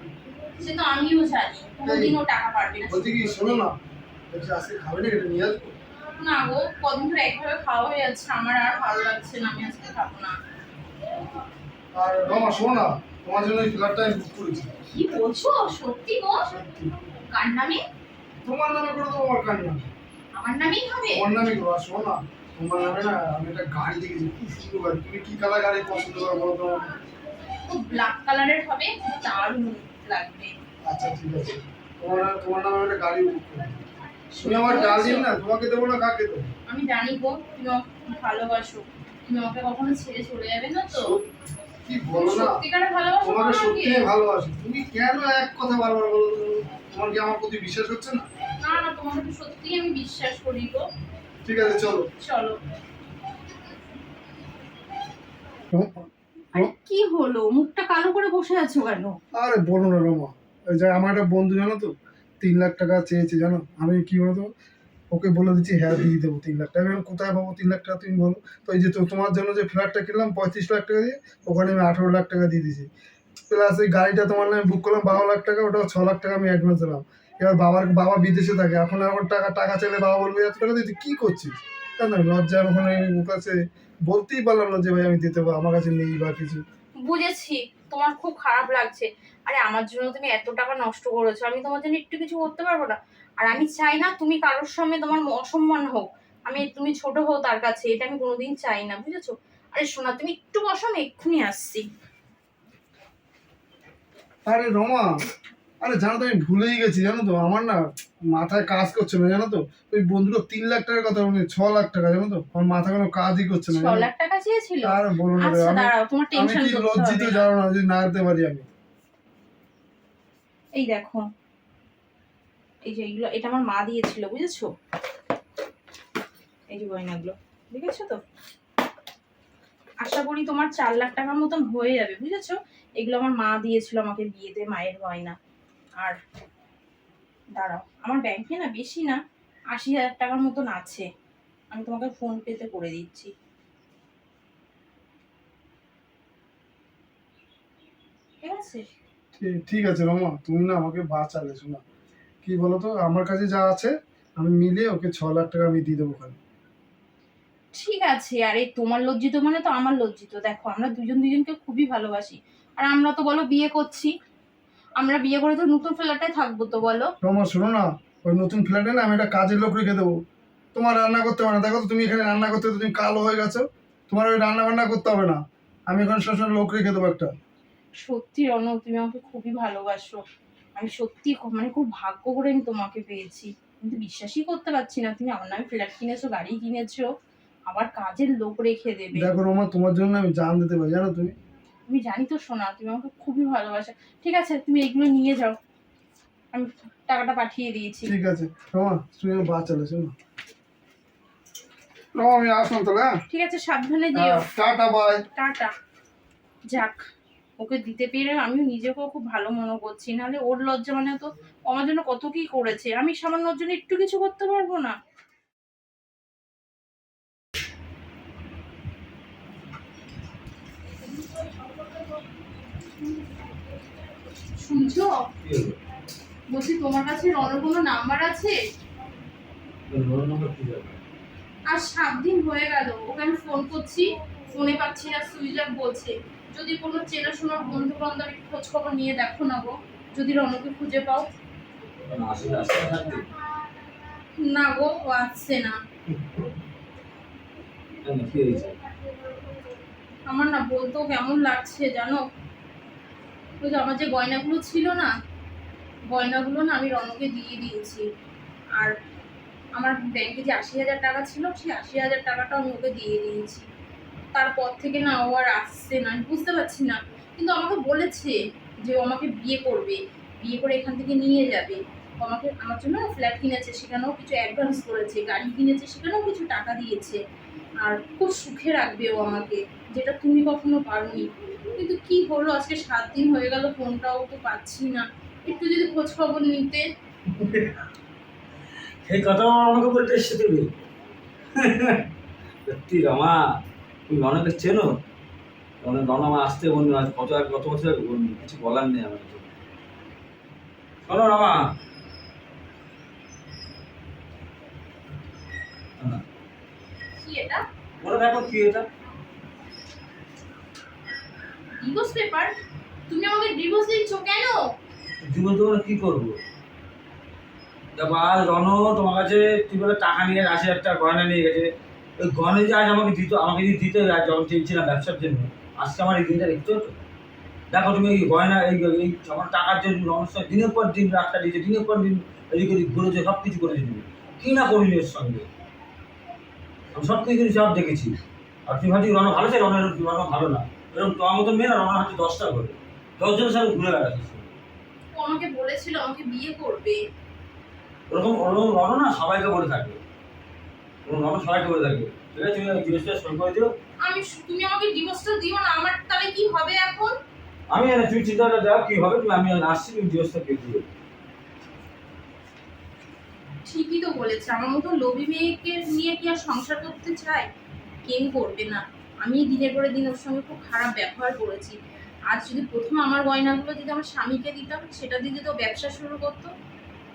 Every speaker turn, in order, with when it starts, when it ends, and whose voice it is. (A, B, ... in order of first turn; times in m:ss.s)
0:00.5-0:03.6 A
0:01.8-0:02.1 B
0:02.9-0:03.8 B
0:04.3-0:05.7 B
0:06.2-0:10.4 A
0:11.9-0:14.7 B
0:14.8-0:16.4 A
0:16.4-0:16.9 B
0:17.3-0:17.8 A
0:18.4-0:19.9 B
0:20.4-0:21.2 A
0:21.1-0:26.9 B
0:27.6-0:30.6 A
0:30.8-0:33.8 B
0:34.3-0:35.3 A
0:34.4-0:36.5 B
0:36.7-0:41.1 A
0:40.9-0:41.3 B
0:41.8-0:42.6 B
0:42.1-0:44.1 A
0:43.2-0:48.2 B
0:48.6-0:50.9 A
0:51.4-0:52.1 B
0:52.2-0:52.6 A
0:55.7-0:56.7 B
0:56.5-0:59.2 A
0:59.3-1:04.5 B
1:05.1-1:12.9 B
1:13.5-1:26.6 B
1:27.0-1:41.8 A
1:44.4-1:45.1 B
1:45.8-1:54.1 B
1:53.7-1:57.5 A
1:54.8-1:58.7 B
2:00.8-2:01.2 A
2:02.8-2:04.7 A
2:06.7-2:08.2 A
2:10.0-2:15.4 A
2:17.6-2:19.2 A
2:19.7-2:21.0 A
2:21.7-2:23.3 A
2:28.4-2:28.8 A
2:29.4-2:31.8 B
2:32.4-2:36.4 B
2:37.7-2:44.1 A
2:45.0-2:47.1 A
2:47.2-2:50.2 B
2:50.7-2:57.3 B
2:58.0-3:00.2 A
3:00.8-3:07.1 A
3:07.7-3:09.3 A
3:09.1-3:11.3 B
3:11.9-3:15.6 A
3:16.5-3:18.1 A
3:18.0-3:20.1 B
3:22.1-3:23.1 B
3:23.3-3:24.5 A
3:24.2-3:25.2 B
3:25.4-3:25.7 A
3:26.7-3:27.1 A
3:27.6-3:34.9 A
3:44.5-3:45.2 A
3:45.4-3:45.8 C
3:46.5-3:48.6 A
3:49.9-3:51.0 C
3:51.7-4:01.3 A
4:02.1-4:03.3 C
4:04.4-4:05.8 A
4:08.0-4:08.8 C
4:10.3-4:12.2 A
4:13.6-4:15.1 A
4:16.1-4:18.0 A
4:19.8-4:23.6 A
4:24.3-4:37.2 A
4:37.8-4:46.8 A
4:47.3-4:47.7 C
4:49.0-4:50.7 C
4:51.5-4:52.1 C
4:52.6-4:53.4 C
4:54.1-4:55.0 C
4:55.8-4:59.5 C
5:01.0-5:01.7 C
5:07.2-5:07.6 A
5:08.0-5:08.8 C
5:11.8-5:12.5 A
5:13.1-5:14.6 A
5:15.2-5:16.4 C
5:18.0-5:27.0 C
5:27.7-5:35.5 C
5:36.9-5:44.6 C
5:45.1-5:47.0 A
5:48.1-5:50.0 C
5:51.0-5:53.7 C
5:54.0-5:57.1 A
5:57.7-6:00.8 C
6:03.6-6:07.5 A
6:08.0-6:11.8 A
6:12.3-6:16.5 A